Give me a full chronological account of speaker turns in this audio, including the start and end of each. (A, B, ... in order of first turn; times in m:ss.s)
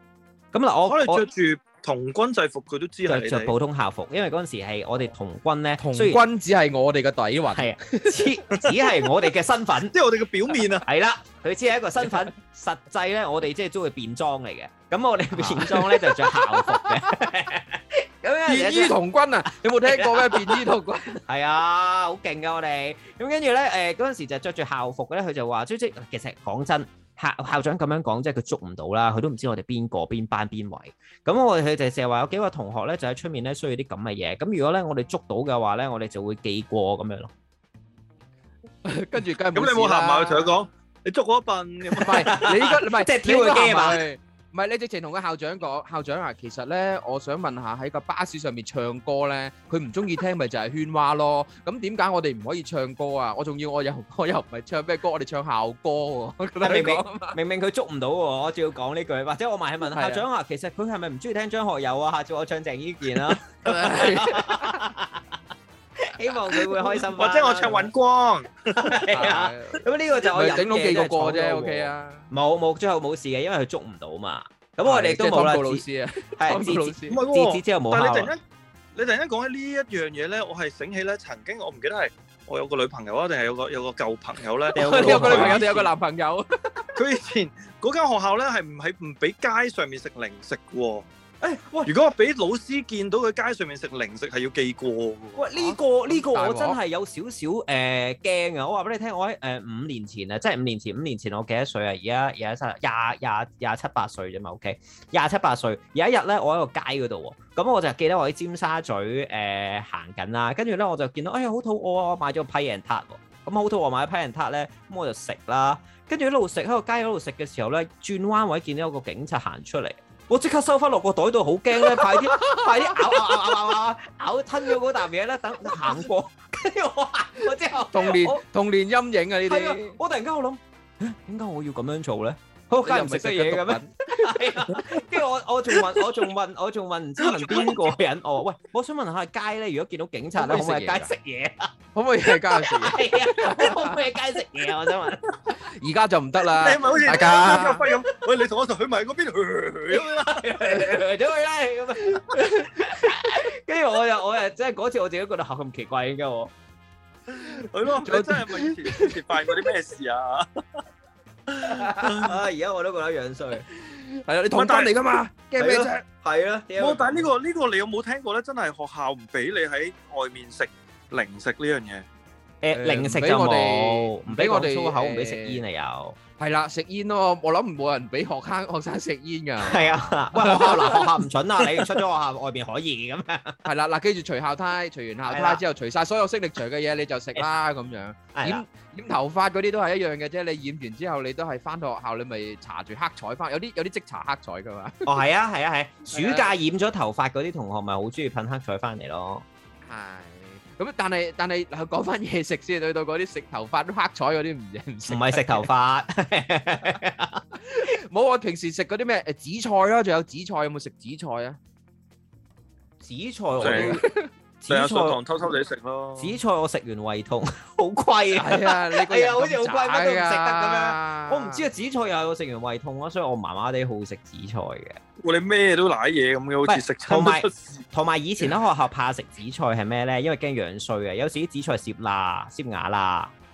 0:00.5-0:01.2 A
0:00.9-0:03.5 B
0:03.1-0:06.2 A
0:05.8-0:08.3 C
0:07.5-0:10.0 A
0:09.9-0:10.8 B
0:10.8-0:19.0 A
0:15.3-0:17.1 C
0:18.5-0:21.2 C
0:19.5-0:20.7 A
0:21.3-0:37.3 A
0:38.8-0:40.5 C
0:39.5-0:42.3 B
0:42.0-0:57.4 C
0:42.1-0:44.0 A
0:56.6-1:05.4 A
0:59.9-1:00.2 C
1:03.6-1:04.9 C
1:06.0-1:07.9 A
1:07.0-1:08.9 B
1:08.8-1:15.8 A
1:09.1-1:12.3 C
1:14.8-1:17.2 C
1:16.4-1:18.3 A
1:17.1-1:18.4 B
1:18.9-1:25.6 B
1:24.7-1:25.9 A
1:24.7-1:26.8 C
1:27.0-1:31.1 B
1:31.4-1:31.9 A
1:31.8-1:35.5 B
1:35.4-2:08.4 A
1:35.6-1:36.8 C
2:01.8-2:03.5 C
2:07.9-2:10.0 C
2:09.4-2:21.7 A
2:12.8-2:15.0 C
2:17.2-2:17.9 B
2:20.4-2:21.1 C
2:22.0-2:24.0 C
2:22.3-2:25.4 A
2:25.5-2:27.8 C
2:26.6-2:30.4 B
2:26.8-2:28.0 A
2:29.9-2:36.5 A
2:32.2-2:33.1 C
2:37.3-2:39.4 C
2:37.7-2:40.8 B
2:41.7-2:43.6 A
2:41.8-2:42.1 C
2:42.0-2:42.3 B
2:43.7-2:46.0 C
2:44.5-2:44.9 B
2:45.6-2:47.3 A
2:46.8-2:52.0 B
2:52.6-2:56.2 A
2:52.7-2:55.6 C
2:56.4-3:01.9 C
2:59.6-3:03.6 A
3:03.6-3:15.1 C
3:05.3-3:05.6 A
3:08.3-3:08.6 A
3:15.1-3:19.4 A
3:16.1-3:16.5 C
3:19.8-3:25.7 C
3:25.1-3:27.4 A
3:27.6-3:31.6 C
3:33.0-3:34.1 A
3:33.6-3:34.0 B
3:33.6-3:34.3 C
3:34.6-3:35.2 A
3:34.7-3:36.4 B
3:36.2-3:45.0 A
3:38.3-3:41.6 C
3:45.2-3:47.8 B
3:46.6-3:53.3 A